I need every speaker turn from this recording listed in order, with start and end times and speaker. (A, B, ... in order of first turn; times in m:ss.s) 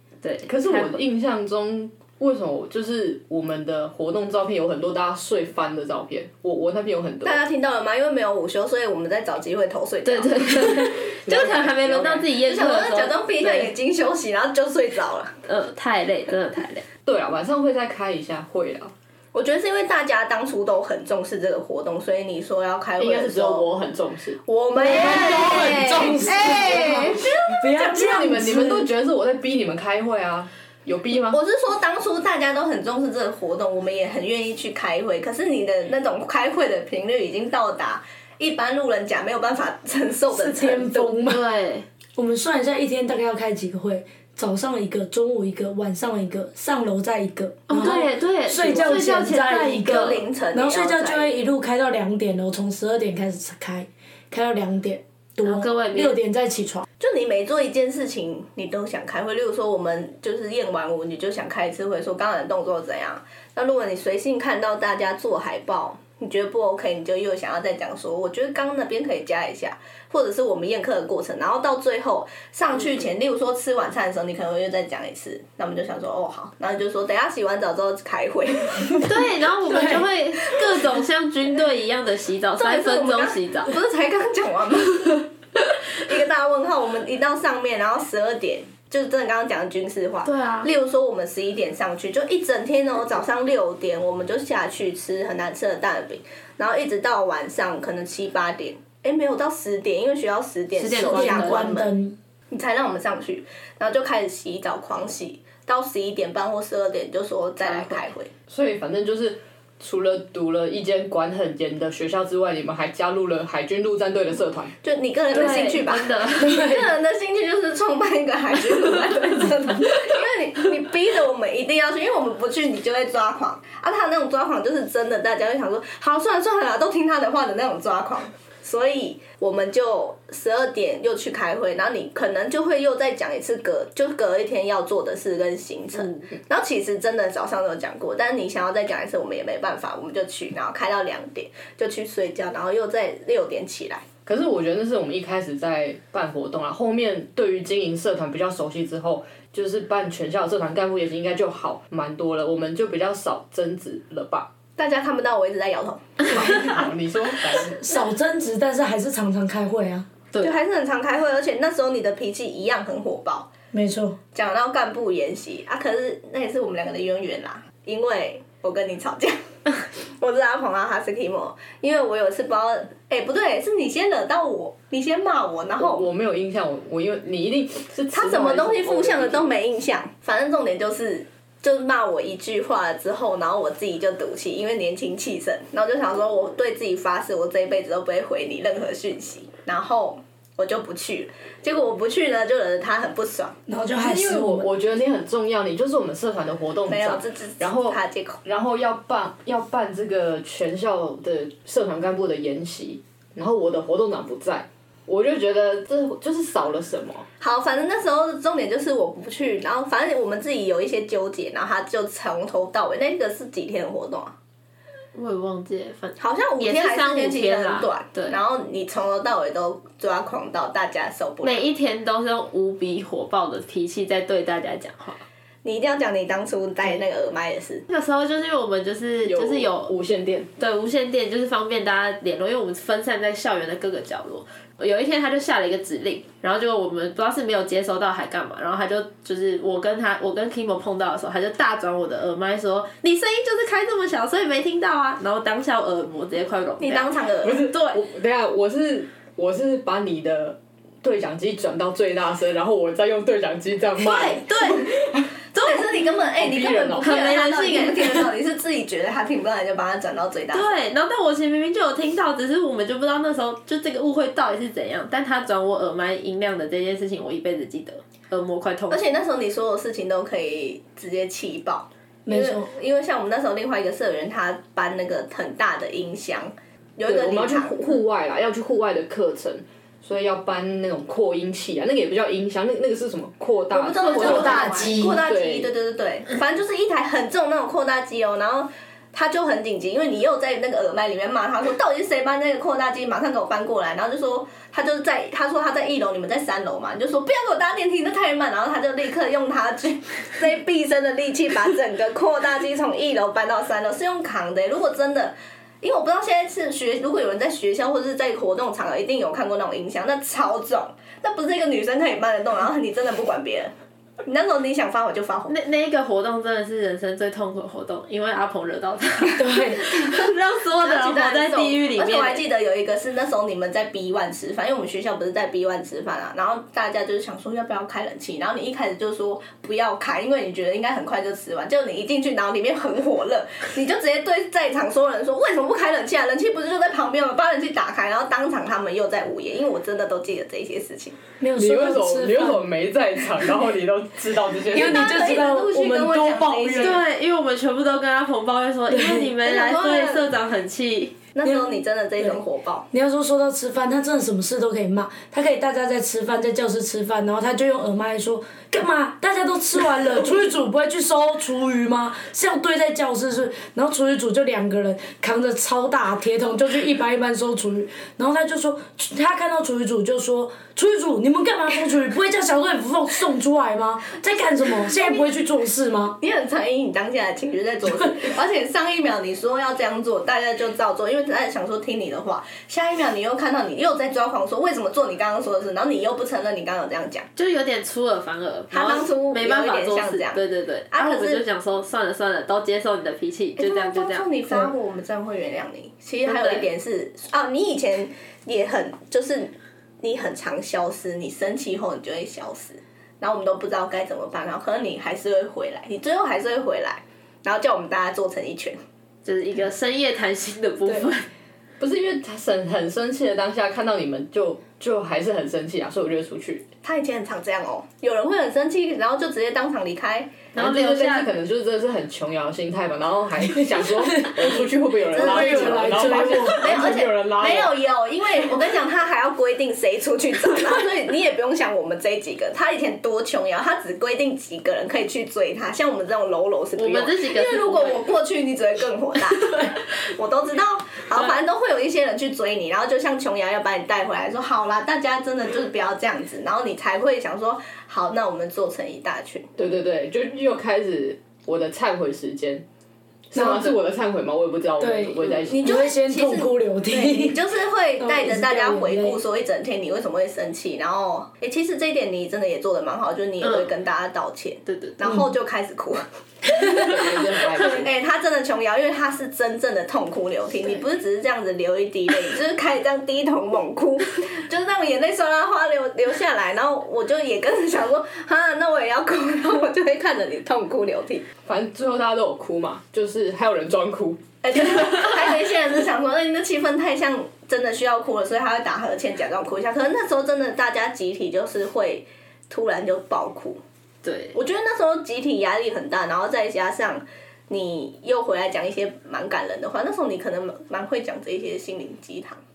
0:00.2-0:01.0 A
0:00.5-0:07.4 B
0:07.2-0:15.4 C
0:10.0-0:13.7 A
0:11.3-0:11.7 B
0:15.5-0:16.8 A
0:17.0-0:18.9 B
0:19.3-0:23.7 C
0:23.0-0:31.4 B
0:24.5-0:27.6 C
0:24.8-0:28.9 D
0:31.3-0:41.1 C
0:40.3-0:41.4 D
0:41.2-0:41.9 A
0:42.2-0:56.9 D
0:47.7-0:50.2 A
0:49.8-0:51.3 C
0:55.4-0:56.2 A
0:57.0-1:19.1 C
1:19.0-1:23.7 A
1:19.7-1:20.0 D
1:22.6-1:25.3 C
1:25.9-1:41.9 C
1:30.3-1:30.7 A
1:40.8-1:41.8 A
1:40.9-1:42.2 D
1:42.5-1:48.3 C
1:47.6-1:48.1 A
1:48.5-1:54.8 B
1:54.8-2:24.0 C
1:55.3-1:56.7 A
1:56.4-1:56.9 D
2:16.0-2:16.3 A
2:24.3-2:34.5 B
2:34.8-2:36.7 C
2:36.3-2:37.8 B
2:37.7-2:40.1 D
2:40.4-2:43.5 C
2:43.7-2:44.2 D
2:44.3-2:56.1 C
2:55.8-2:59.5 B
2:58.1-3:13.6 C
3:13.7-3:14.7 D
3:14.0-3:27.3 B
3:16.9-3:18.4 C
3:27.4-3:34.3 C
3:35.1-3:38.4 A
3:36.2-3:41.7 C
3:41.4-3:45.2 A
3:45.6-3:47.8 C
3:47.9-3:49.9 A
3:49.2-3:50.5 B
3:50.6-4:08.0 A
4:06.8-4:07.6 C
4:07.4-4:15.3 B
4:14.0-4:15.0 A
4:15.5-4:15.9 A
4:15.6-4:20.7 C
4:16.4-4:17.2 B
4:17.0-4:18.3 A
4:20.5-4:29.1 A
4:28.9-4:37.8 C
4:32.3-4:32.7 D
4:37.0-4:45.7 B
4:43.7-5:13.7 C
4:44.0-4:44.9 A
4:44.1-4:45.2 D
5:14.2-5:15.5 C
5:15.5-5:22.4 A
5:19.4-5:19.9 D
5:20.8-5:41.2 C
5:41.4-5:42.6 D
5:41.6-5:45.1 B
5:44.7-5:47.0 D
5:44.8-5:47.0 C
5:46.8-5:51.2 A
5:48.9-5:49.3 D
5:49.4-5:50.3 C
5:51.4-5:52.9 C
5:51.4-5:52.4 D
5:52.9-6:16.2 D
6:16.2-6:27.3 C
6:27.4-6:34.3 A
6:28.7-6:31.4 C
6:33.6-6:48.8 C
6:36.2-6:36.7 A
6:49.2-6:51.3 A
6:51.8-6:56.7 B
6:56.8-7:00.4 C
7:00.5-7:01.3 A
7:00.6-7:07.8 B
7:05.1-7:29.5 C
7:05.1-7:07.0 D
7:16.8-7:18.1 A
7:29.6-7:32.6 B
7:33.3-7:35.7 B
7:33.4-7:33.8 D
7:34.8-7:37.4 D
7:35.5-8:01.3 C
7:38.0-7:39.2 D
7:43.4-7:43.7 A
7:44.7-7:45.0 A
7:45.0-7:45.3 D
7:46.7-7:47.9 B
8:01.5-8:04.2 B
8:04.4-8:13.6 C
8:14.0-8:14.4 A
8:14.3-8:22.4 C